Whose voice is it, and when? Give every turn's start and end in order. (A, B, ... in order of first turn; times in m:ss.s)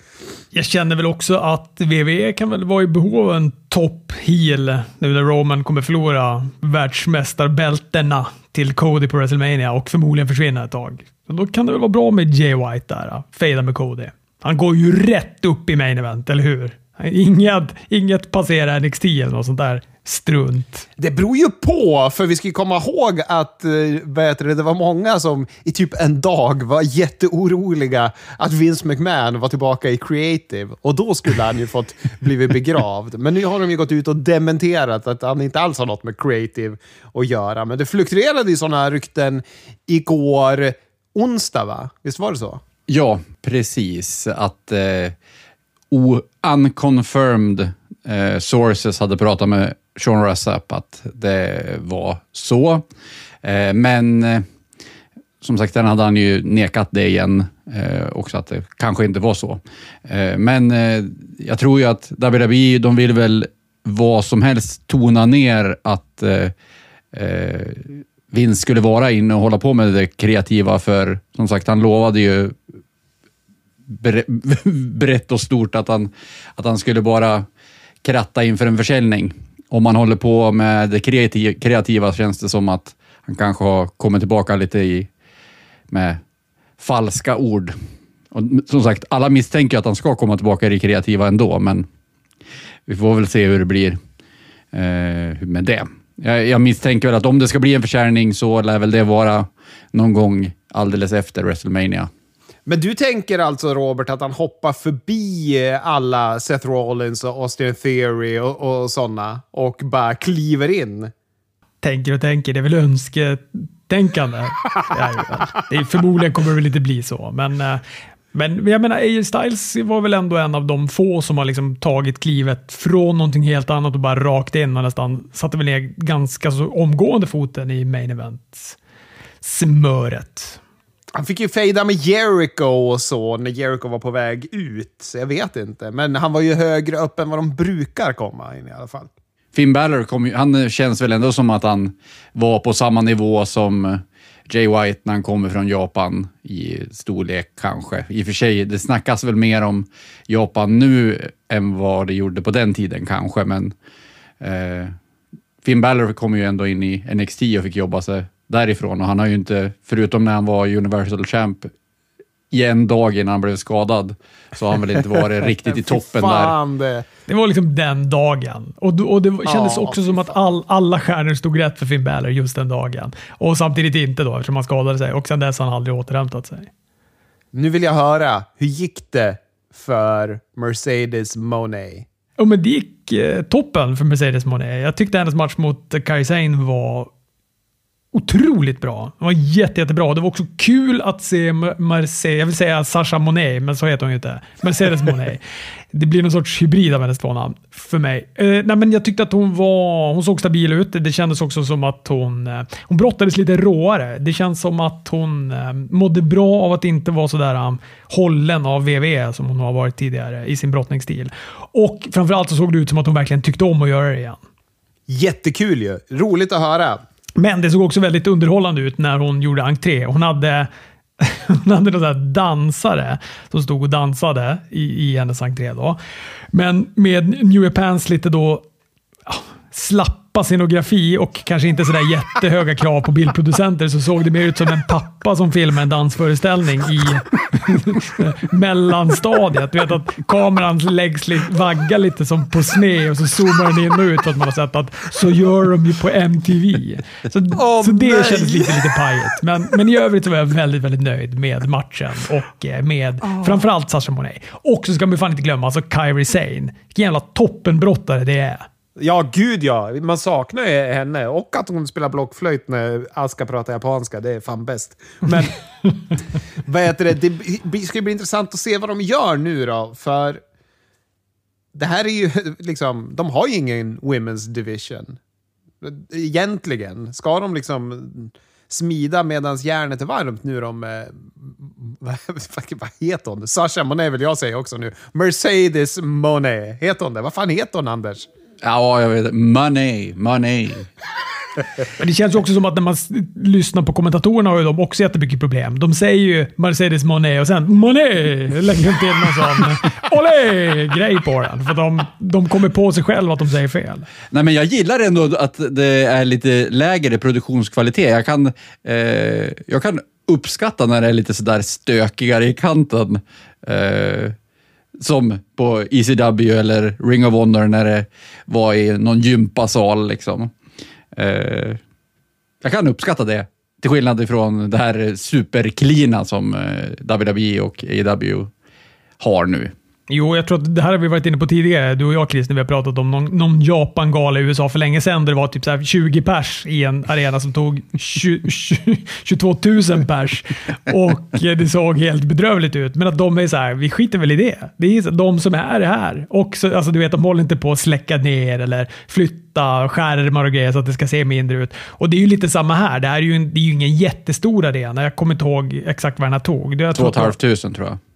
0:00.5-0:20.9 A
0:21.0-0:42.6 B
0:42.9-0:45.1 C
0:45.9-0:52.8 C
0:53.4-0:54.4 C
0:55.4-1:06.5 C
1:07.1-1:12.6 C
1:13.9-1:17.5 C
1:18.0-1:25.1 C
1:25.9-1:26.2 C
1:26.8-1:27.7 C
1:28.3-1:31.9 C
1:32.9-1:34.0 C
1:34.7-1:42.1 C
1:42.6-1:51.1 B
1:51.8-1:57.8 A
1:58.3-2:08.8 A
2:09.4-2:10.6 A
2:11.2-2:19.1 B
2:19.5-2:33.7 C
2:34.4-2:35.0 C
2:35.6-2:41.7 C
2:42.5-2:46.5 C
2:45.6-2:47.0 B
2:47.3-2:56.7 A
2:49.4-2:50.3 B
2:57.5-3:02.0 B
3:02.4-3:07.1 A
3:08.1-3:15.4 A
3:15.9-3:34.4 A
3:35.1-3:37.0 B
3:37.4-3:40.7 A
3:41.2-3:46.0 A
3:46.5-3:48.6 A
3:49.2-4:18.7 A
4:07.5-4:09.0 B
4:13.3-4:13.6 B
4:19.0-4:25.6 B
4:26.6-4:30.4 B
4:31.7-4:35.2 B
4:35.8-4:48.3 B
4:48.6-4:50.9 C
4:52.0-5:04.1 A
5:04.3-5:14.4 C
5:15.0-5:20.5 C
5:21.1-5:21.8 C
5:22.6-5:28.5 C
5:29.2-5:29.7 C
5:30.1-5:57.3 A
5:56.9-5:58.0 C